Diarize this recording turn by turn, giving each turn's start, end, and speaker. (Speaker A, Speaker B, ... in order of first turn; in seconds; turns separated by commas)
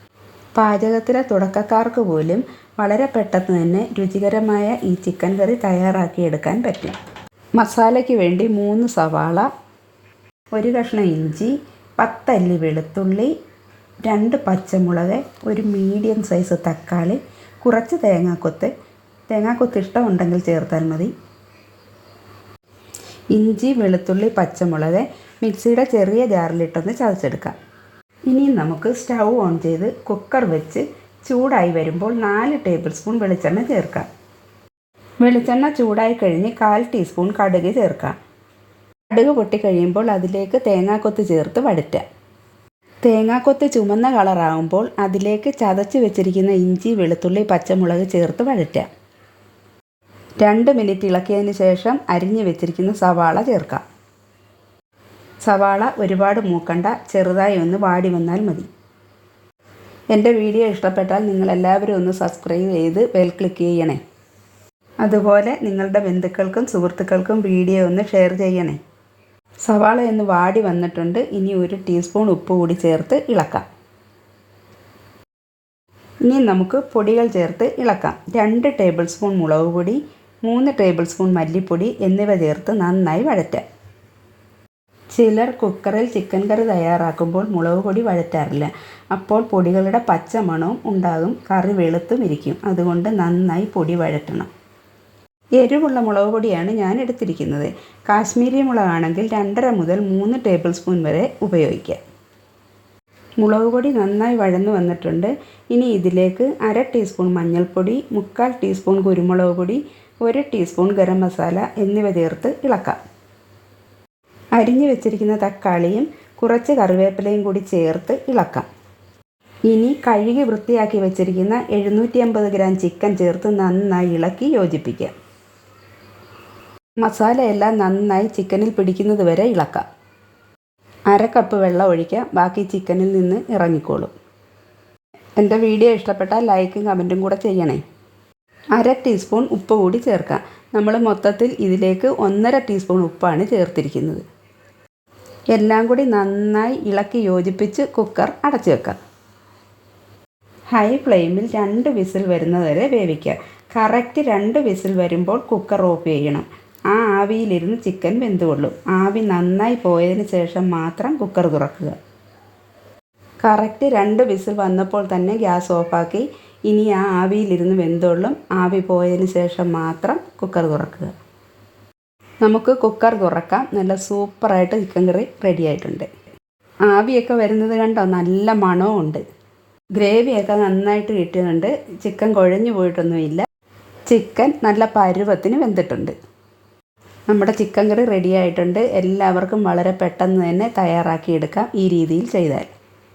Speaker A: 0.6-7.0, Speaker A: 7.6-9.5, Speaker A: 10.5-13.3, Speaker A: 14.1-18.7, Speaker A: 19.3-21.1, Speaker A: 23.3-27.5, Speaker A: 28.3-34.1, Speaker A: 35.2-38.2, Speaker A: 39.1-42.0, Speaker A: 43.0-48.9, Speaker A: 50.4-53.8, Speaker A: 55.4-58.7, Speaker A: 60.1-64.0, Speaker A: 65.0-68.8, Speaker A: 69.7-73.6, Speaker A: 76.2-83.6, Speaker A: 85.1-94.5, Speaker A: 95.6-102.0, Speaker A: 103.4-113.0, Speaker A: 114.5-118.7, Speaker A: 119.7-125.1, Speaker A: 127.0-129.8, Speaker A: 131.1-134.1, Speaker A: 135.4-137.8, Speaker A: 138.8-144.2, Speaker A: 145.5-148.9, Speaker A: 150.7-161.9, Speaker A: 163.4-171.1, Speaker A: 172.4-176.1, Speaker A: 176.9-179.2, Speaker A: 180.0-183.4, Speaker A: 184.1-186.1, Speaker A: 187.3-192.7